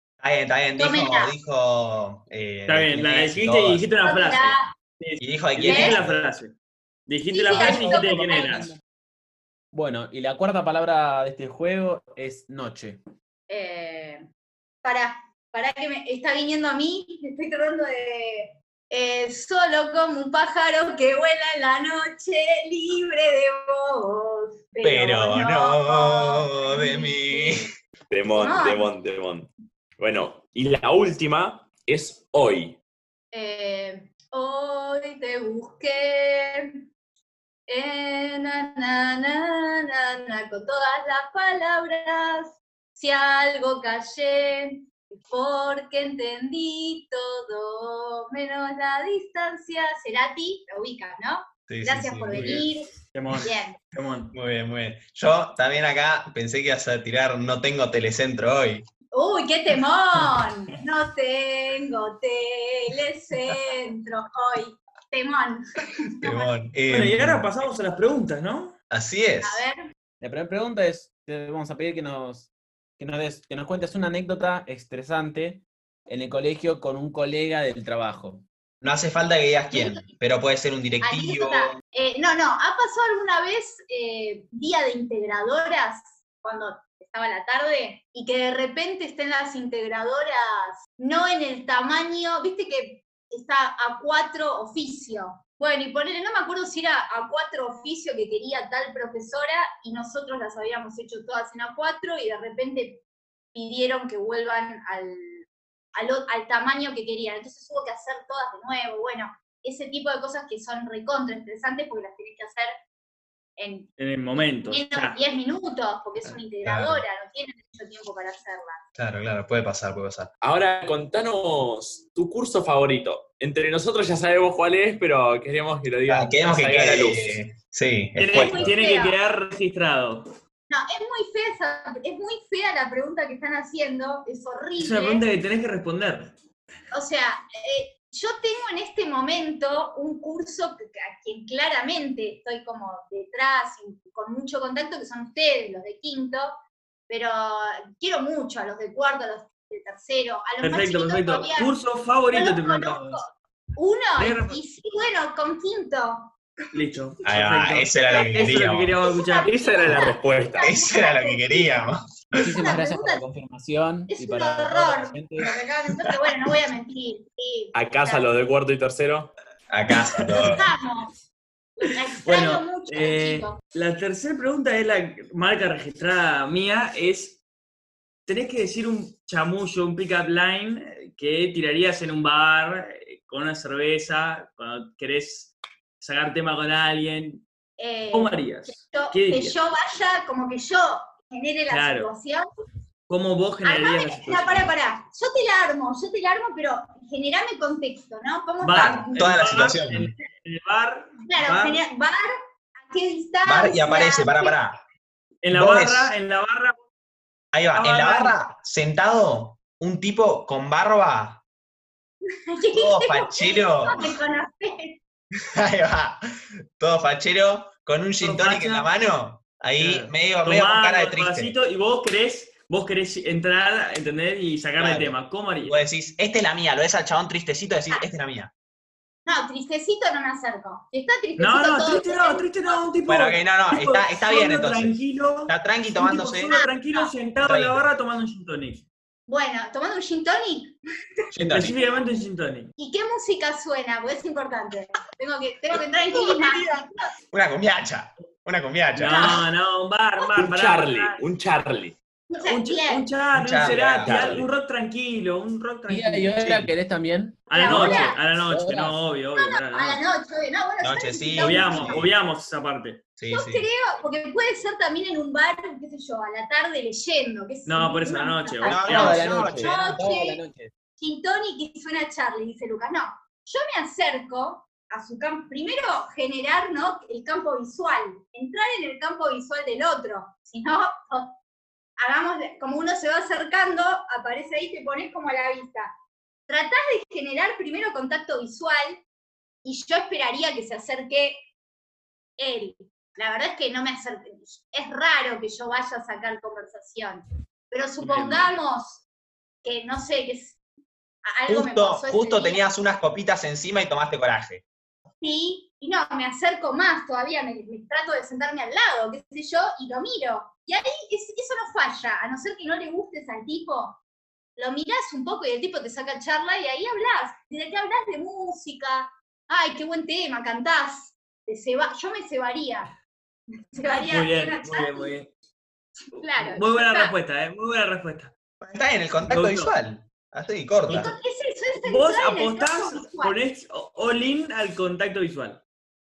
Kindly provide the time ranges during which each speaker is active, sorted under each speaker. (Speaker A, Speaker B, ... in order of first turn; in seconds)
Speaker A: 0.2-4.0, 5.2-6.2, 7.5-7.8, 24.8-27.7, 51.7-52.7, 54.3-58.9, 66.2-67.5, 68.9-69.6, 78.8-81.8, 116.2-117.0, 119.0-120.3, 126.0-128.7, 157.2-159.0, 160.6-162.0, 169.7-170.7, 198.7-200.1, 203.4-204.8, 205.5-206.1, 207.5-211.4, 212.7-214.2, 215.5-216.2, 216.8-221.5, 224.8-228.5, 233.1-236.5, 237.4-237.8, 241.3-241.8, 246.3-246.8, 247.3-249.4, 253.3-254.5, 260.8-262.1, 263.2-263.6, 268.6-270.0, 301.5-304.6, 328.6-331.1
Speaker B: 0.8-1.3, 4.0-4.7, 5.6-6.0, 7.3-8.7, 13.5-14.3, 14.8-27.7, 28.3-28.9, 33.3-36.7, 37.7-53.8, 59.1-66.5, 69.4-69.8, 79.7-80.1, 81.0-103.0, 103.5-112.7, 113.6-113.9, 114.7-118.8, 128.3-129.2, 130.7-135.2, 136.9-146.6, 147.1-151.8, 152.3-156.3, 158.1-161.8, 162.4-163.2, 164.1-168.3, 170.3-171.1, 171.8-173.6, 187.8-192.5, 193.6-199.2, 201.3-204.6, 212.5-215.0, 229.2-232.8, 236.1-237.1, 239.3-240.7, 242.8-247.1, 249.1-249.4, 252.3-253.1, 257.5-258.2, 259.3-262.0, 263.3-270.4, 271.0-281.4, 282.0-285.9, 286.5-289.0, 289.6-291.5, 292.4-299.0, 299.6-300.6, 301.2-302.6, 305.2-314.0, 314.6-322.9, 323.7-325.1, 326.1-327.1, 330.9-333.4
Speaker C: 2.7-6.5, 7.1-8.7, 52.3-54.3, 66.9-68.8, 114.0-115.2, 128.2-130.3, 134.8-136.3, 150.6-153.2, 154.2-154.6, 156.7-160.1, 170.0-170.5, 172.2-177.4, 178.2-187.4, 188.1-189.6, 191.7-192.1, 193.1-194.7, 198.6-201.8, 205.4-206.8, 207.7-208.4, 218.2-218.9, 219.8-225.8, 231.4-238.8, 241.4-242.7, 248.9-251.2, 252.4-256.4, 257.5-260.0, 261.4-263.1, 267.6-269.6, 298.0-298.5, 324.0-325.3, 326.4-328.3, 329.3-329.7, 331.8-335.6
Speaker D: 9.7-13.0, 70.2-78.4, 162.4-165.4, 255.9-259.0, 268.6-270.7
Speaker E: 28.1-32.8, 120.4-127.4, 159.9-160.7, 167.7-169.3, 250.4-251.9, 254.0-254.5